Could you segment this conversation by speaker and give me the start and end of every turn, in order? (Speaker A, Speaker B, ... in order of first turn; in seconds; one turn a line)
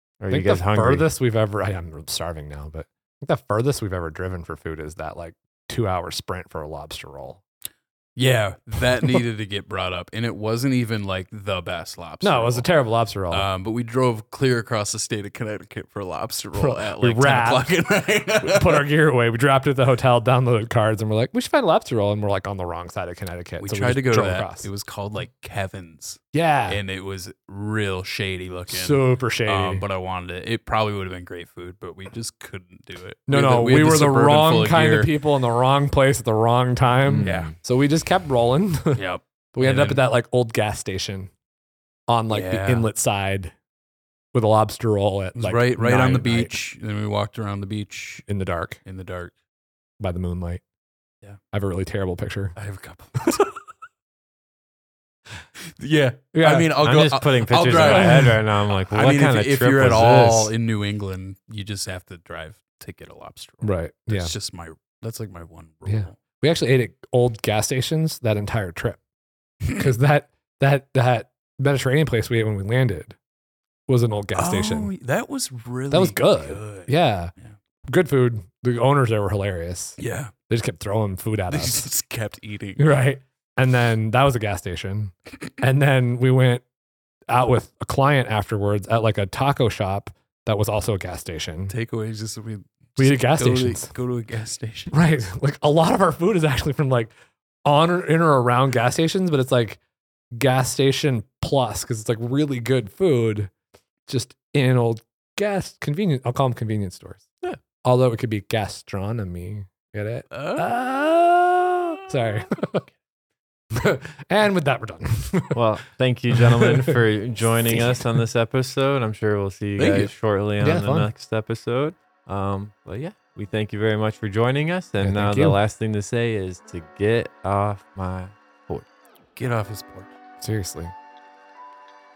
Speaker A: 0.2-1.1
Speaker B: 0.3-7.4
Speaker C: 8.2-12.7
Speaker B: 12.2-13.5
Speaker C: 13.3-18.9
Speaker B: 16.6-17.7
Speaker B: 18.4-24.7
Speaker C: 23.6-35.1
Speaker B: 26.3-26.8
Speaker B: 28.7-29.8
Speaker B: 33.3-39.0
Speaker A: 37.1-37.5
Speaker C: 37.2-37.5
Speaker C: 39.0-40.0
Speaker B: 39.5-41.3
Speaker B: 42.1-43.5
Speaker C: 42.3-42.9
Speaker B: 44.3-46.5
Speaker C: 45.4-48.2
Speaker B: 48.3-48.8
Speaker C: 48.9-49.3
Speaker B: 50.0-50.6
Speaker B: 51.5-52.5
Speaker C: 52.6-53.5
Speaker C: 55.8-66.2
Speaker B: 56.3-56.7
Speaker A: 56.8-60.5
Speaker B: 57.7-58.4
Speaker B: 63.6-64.3
Speaker B: 65.9-69.0
Speaker B: 69.7-73.2
Speaker B: 73.9-74.9
Speaker C: 74.3-76.9
Speaker B: 75.9-77.3
Speaker B: 77.9-81.9
Speaker C: 80.0-80.3
Speaker C: 81.5-82.8
Speaker B: 82.8-86.6
Speaker B: 87.3-91.7
Speaker C: 91.7-94.9
Speaker B: 93.0-93.9
Speaker B: 94.9-97.1
Speaker B: 97.7-99.8
Speaker B: 100.4-103.5
Speaker B: 104.1-107.3
Speaker B: 107.8-112.8
Speaker C: 110.3-110.7
Speaker B: 113.7-115.6
Speaker A: 115.5-128.9
Speaker B: 116.3-117.0
Speaker B: 117.7-118.0
Speaker C: 119.8-120.1
Speaker B: 120.6-121.1
Speaker B: 125.0-125.6
Speaker C: 129.4-130.1
Speaker B: 130.4-130.9